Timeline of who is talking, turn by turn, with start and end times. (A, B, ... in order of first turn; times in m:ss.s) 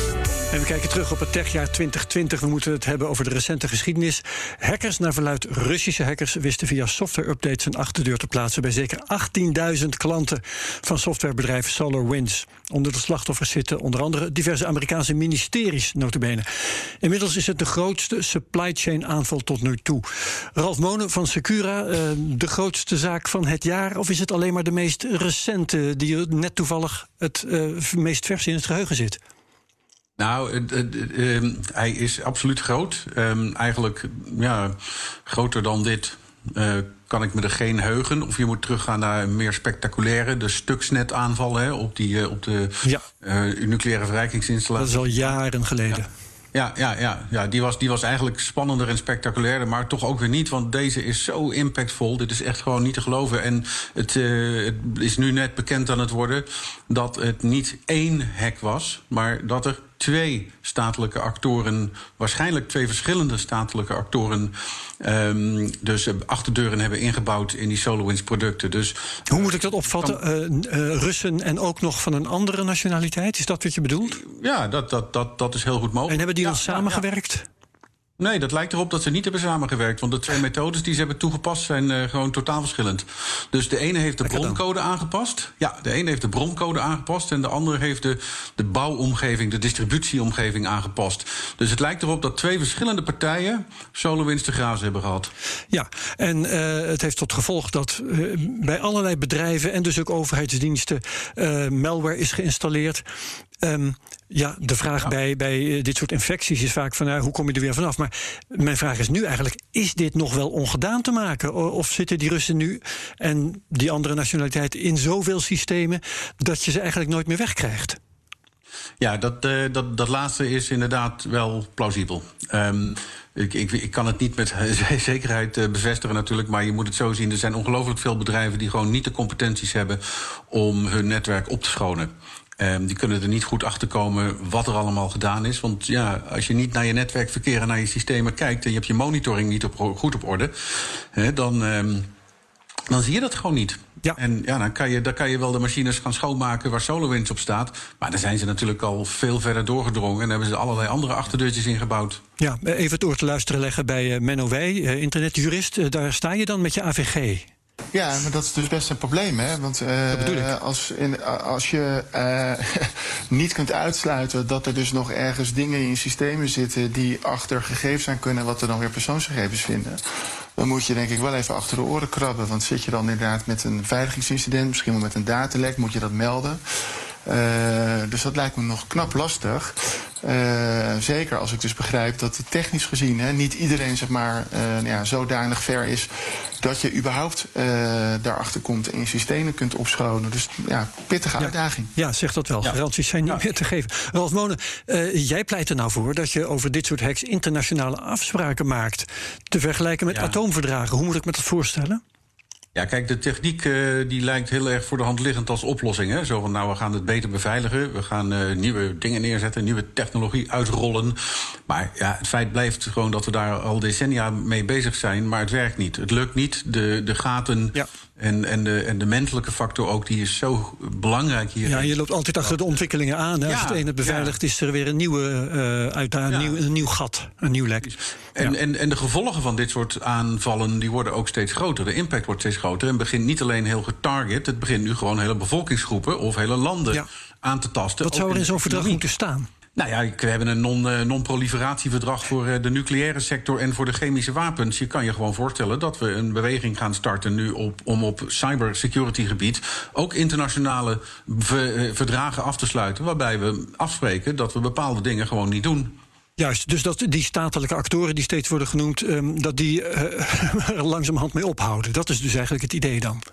0:00.5-0:16.4 A
0:17.0-0:20.0 A
0:20.6-0:29.2 A
0:30.2-0:45.3 B
0:44.8-0:46.1 A
0:46.5-1:10.2 B
1:09.3-1:14.2 A
1:14.1-1:17.0 B
1:16.1-1:17.4 A
1:18.2-1:35.3 B
1:24.2-1:24.6 A
1:35.7-1:43.0 A
1:43.6-1:58.0 A
1:59.0-2:22.1 B
2:22.9-2:32.2 B
2:32.4-2:37.5 A
2:37.9-2:50.0 C
2:40.1-2:40.5 A
2:50.6-2:56.6 C
2:57.2-3:06.1 C
3:06.6-3:11.9 C
3:11.4-3:22.0 A
3:12.6-3:13.4 B
3:20.1-3:20.4 B
3:22.7-3:42.8 B
3:41.6-3:48.6 A
3:43.4-3:44.3 B
3:46.3-3:46.6 B
3:47.8-3:59.0 B
3:58.0-3:59.5 A
3:59.8-4:16.0 B
4:16.4-4:23.2 A